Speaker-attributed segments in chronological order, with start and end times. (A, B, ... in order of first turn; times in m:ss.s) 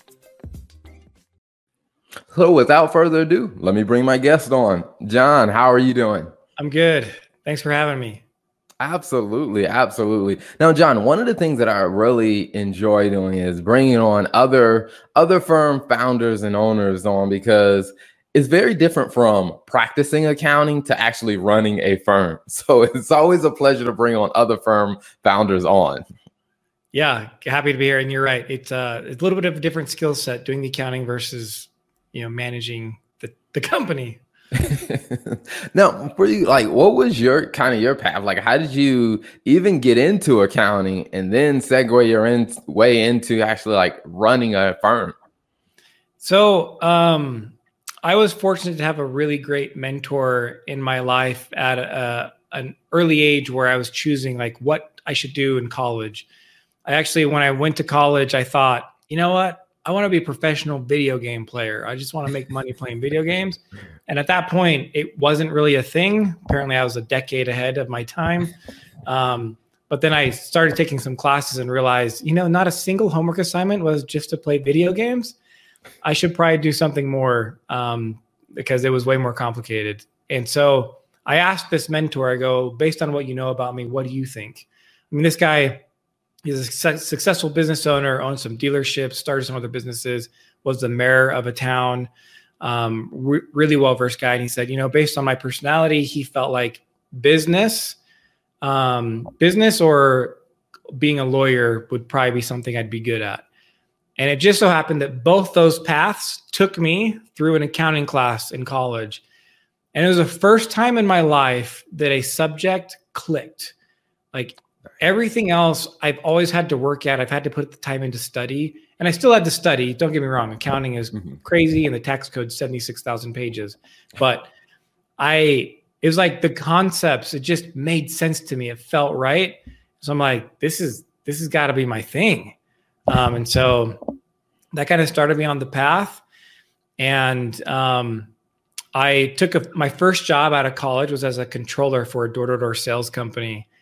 0:02.3-0:06.3 A
0:06.6-0:08.2 B
0:08.8-0:26.0 A
0:26.9-0:34.2 B
0:34.6-0:45.1 A
0:46.2-0:56.3 B
0:56.8-1:08.5 B
1:09.0-1:15.4 B
1:16.0-1:25.8 B
1:26.4-1:38.0 B
1:38.6-1:40.4 B
1:40.9-1:43.4 B
1:44.2-1:49.2 B
1:49.9-1:53.7 B
1:54.3-2:04.5 B
2:05.2-2:12.6 B
2:13.1-2:14.2 B
2:14.7-2:16.2 B
2:17.0-2:18.3 B
2:18.9-2:23.6 B